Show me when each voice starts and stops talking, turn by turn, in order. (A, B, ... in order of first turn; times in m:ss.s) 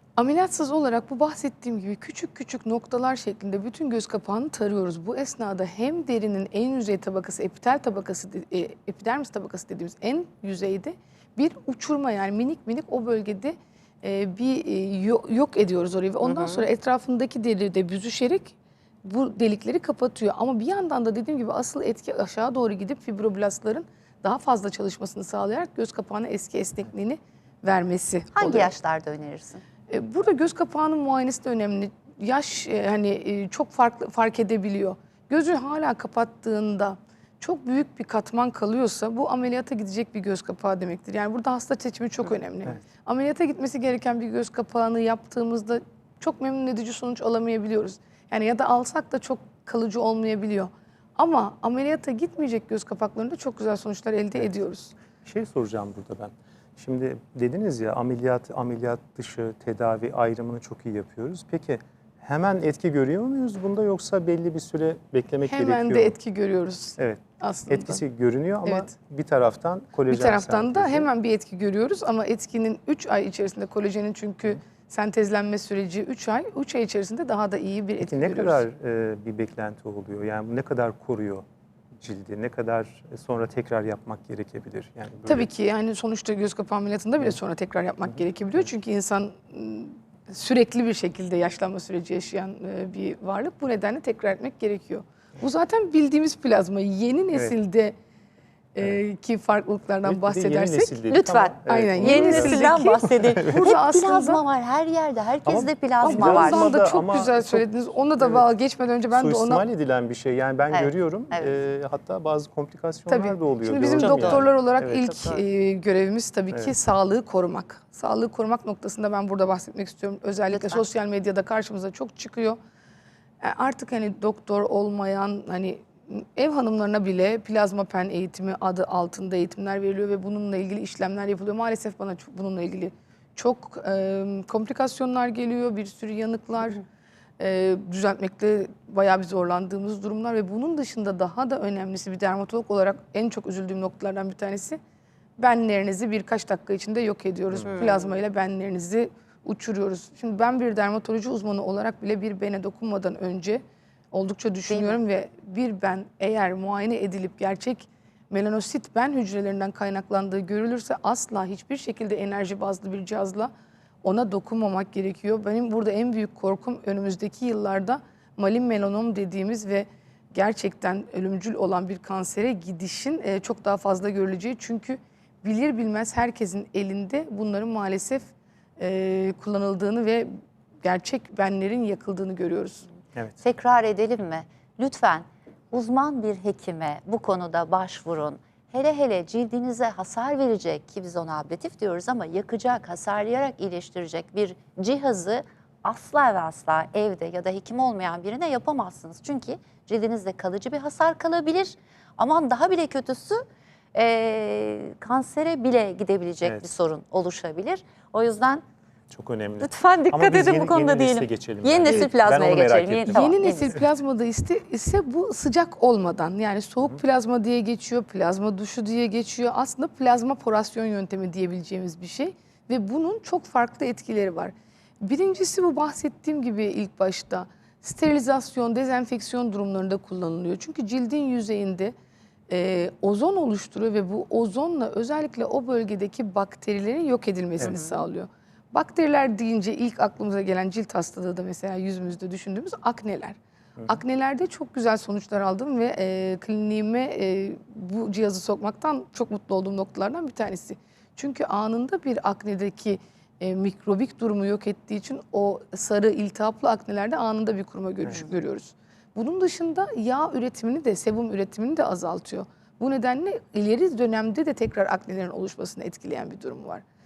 0:00.2-0:28.7 A
0:16.2-0:16.6 B
0:28.4-0:29.6 B
0:29.9-0:54.9 A
0:55.2-1:06.2 C
1:05.5-1:08.0 A
1:07.0-1:11.1 C
1:10.1-1:18.6 A
1:18.0-1:21.4 C
1:22.0-1:25.5 C
1:25.3-1:38.0 A
1:38.8-1:40.9 A
1:40.1-1:42.7 C
1:41.1-1:46.7 B
1:41.7-1:44.4 A
1:45.4-1:47.7 C
1:46.0-1:49.6 A
1:49.1-1:55.0 C
1:50.7-1:51.5 B
1:53.1-2:02.6 A
1:54.0-1:55.4 B
2:00.5-2:00.8 B
2:03.4-2:16.8 A
2:17.4-2:24.8 A
2:25.4-2:43.5 A
2:27.7-2:28.2 B
2:34.7-2:35.0 B
2:44.0-3:02.9 A
3:03.4-3:28.6 B
3:29.1-3:33.4 C
3:29.6-3:33.8 B
3:31.8-3:32.1 A
3:33.1-3:51.9 A
3:52.5-4:26.8 A